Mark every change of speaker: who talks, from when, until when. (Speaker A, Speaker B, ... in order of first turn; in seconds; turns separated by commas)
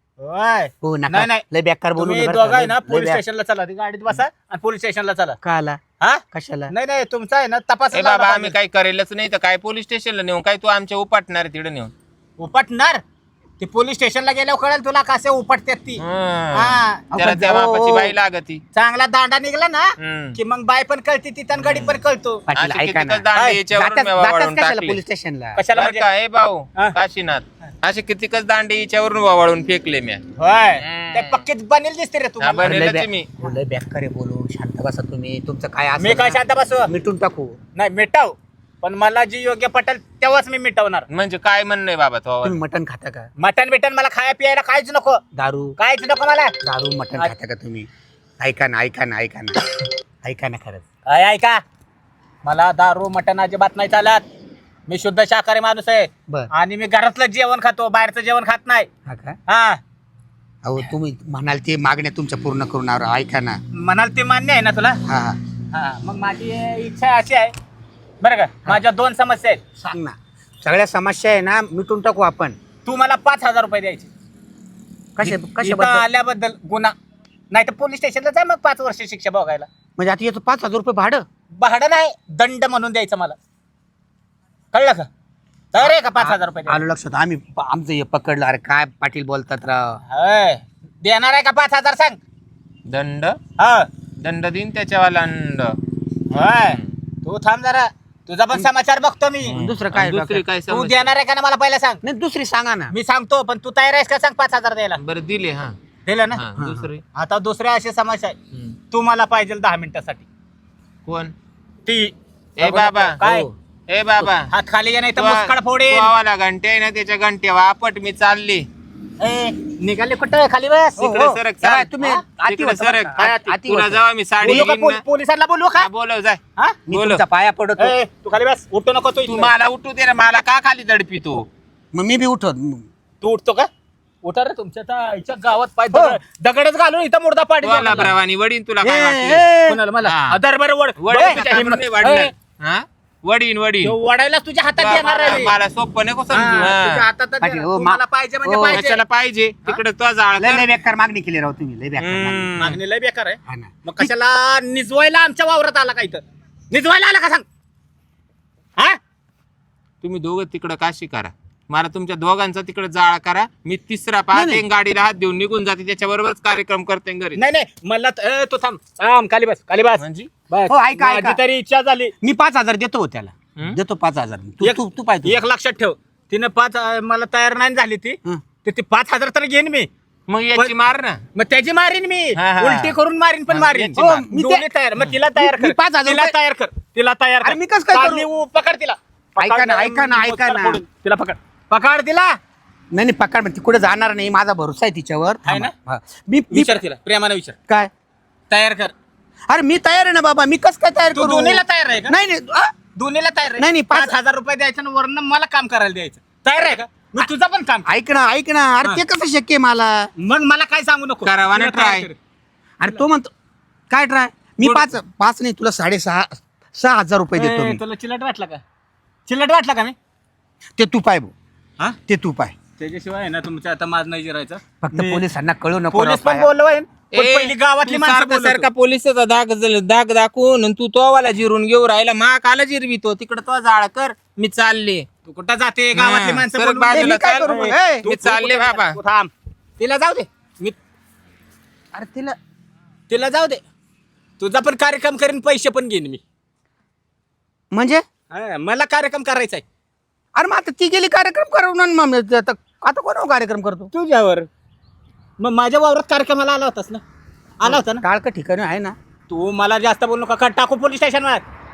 Speaker A: 0.2-1.4, Speaker B: 0.8-3.2, Speaker A: 2.0-5.4, Speaker B: 5.4-5.8, Speaker A: 6.0-8.5, Speaker B: 6.3-6.7, Speaker C: 7.9-11.9, Speaker A: 12.4-13.0, Speaker A: 13.6-16.0, Speaker C: 16.0-18.6, Speaker A: 16.5-17.1, Speaker B: 17.1-18.1, Speaker A: 18.7-22.4, Speaker C: 20.0-20.4, Speaker C: 21.6-22.0, Speaker B: 22.5-25.6, Speaker C: 22.5-25.0, Speaker A: 23.3-23.6, Speaker A: 25.6-26.1, Speaker C: 25.7-30.2, Speaker A: 30.4-32.6, Speaker C: 30.8-31.4, Speaker C: 32.4-33.3, Speaker B: 32.6-37.5, Speaker A: 36.0-36.9, Speaker A: 37.8-41.1, Speaker C: 41.1-42.6, Speaker B: 42.4-43.3, Speaker A: 43.4-45.2, Speaker B: 45.4-45.8, Speaker A: 45.8-46.5, Speaker B: 46.6-47.9, Speaker B: 48.4-49.7, Speaker B: 50.2-50.8, Speaker A: 51.0-51.6, Speaker A: 52.4-54.2, Speaker A: 54.9-58.9, Speaker B: 59.1-59.4, Speaker A: 59.5-59.8, Speaker B: 60.6-63.6, Speaker A: 63.8-65.0, Speaker B: 65.1-65.4, Speaker A: 65.7-67.5, Speaker A: 68.2-69.6, Speaker B: 69.8-72.6, Speaker A: 72.8-74.1, Speaker B: 75.2-76.0, Speaker A: 75.2-76.9, Speaker A: 77.5-79.7, Speaker B: 80.0-81.2, Speaker A: 81.6-83.3, Speaker A: 84.7-85.1, Speaker A: 85.7-86.8, Speaker B: 85.8-90.0, Speaker A: 90.1-92.2, Speaker C: 92.9-93.4, Speaker A: 93.6-93.9, Speaker C: 94.2-95.8, Speaker A: 96.3-99.6, Speaker C: 99.4-101.1, Speaker B: 99.5-100.4, Speaker A: 100.7-102.0, Speaker B: 102.0-102.9, Speaker A: 102.9-105.0, Speaker C: 105.0-105.8, Speaker A: 106.0-106.4, Speaker C: 106.3-107.0, Speaker B: 106.6-106.9, Speaker A: 107.1-108.3, Speaker A: 108.9-110.2, Speaker C: 111.0-111.3, Speaker A: 111.8-113.5, Speaker C: 112.6-113.2, Speaker B: 113.2-113.5, Speaker C: 113.9-114.5, Speaker A: 114.5-116.1, Speaker C: 115.2-118.7, Speaker A: 119.2-121.2, Speaker B: 121.0-124.7, Speaker C: 121.1-121.9, Speaker C: 122.5-125.0, Speaker A: 123.2-123.5, Speaker A: 124.4-125.9, Speaker C: 125.8-126.4, Speaker B: 126.9-128.0, Speaker C: 126.9-127.2, Speaker A: 127.8-129.5, Speaker C: 129.2-131.5, Speaker B: 131.9-132.8, Speaker A: 133.2-133.7, Speaker A: 134.2-138.2, Speaker B: 135.9-136.2, Speaker C: 137.6-139.4, Speaker B: 138.8-139.8, Speaker A: 139.6-142.3, Speaker C: 140.1-140.4, Speaker C: 141.0-143.9, Speaker A: 143.8-145.5, Speaker C: 144.8-147.0, Speaker A: 146.3-149.0, Speaker B: 147.4-148.8, Speaker C: 148.7-150.7, Speaker B: 150.4-152.5, Speaker C: 152.0-152.8, Speaker A: 152.6-157.4, Speaker B: 153.5-154.1, Speaker C: 160.0-167.4, Speaker B: 164.3-164.6, Speaker A: 167.3-172.1, Speaker C: 170.0-170.3, Speaker B: 170.7-171.4, Speaker B: 172.2-175.4, Speaker A: 174.6-179.9, Speaker C: 180.3-181.2, Speaker A: 181.3-192.3, Speaker C: 182.3-182.9, Speaker B: 183.5-184.7, Speaker B: 185.3-186.3, Speaker B: 187.4-188.3, Speaker B: 189.4-190.8, Speaker B: 192.9-196.7, Speaker A: 195.4-195.7, Speaker A: 196.5-197.6, Speaker A: 198.5-198.9, Speaker B: 199.5-202.7, Speaker A: 201.1-202.1, Speaker A: 202.9-207.9, Speaker B: 203.6-204.1, Speaker B: 207.8-210.1, Speaker A: 210.2-212.1, Speaker C: 211.2-212.1, Speaker B: 212.8-213.3, Speaker B: 213.9-217.8, Speaker A: 214.6-214.9, Speaker A: 217.3-218.6, Speaker A: 219.3-219.9, Speaker B: 220.8-221.3, Speaker B: 222.1-222.6, Speaker A: 222.8-225.2, Speaker B: 224.8-226.5, Speaker A: 225.9-228.7, Speaker C: 227.1-235.0, Speaker A: 235.3-240.8, Speaker C: 235.9-237.5, Speaker B: 236.9-238.1, Speaker C: 238.1-239.0, Speaker B: 241.9-242.3, Speaker A: 243.1-243.6, Speaker A: 244.4-246.2, Speaker B: 247.7-248.0, Speaker A: 248.3-249.6, Speaker B: 250.3-253.9, Speaker A: 253.9-254.5, Speaker A: 255.4-257.0, Speaker A: 257.6-258.0, Speaker B: 257.6-258.9, Speaker A: 259.3-261.4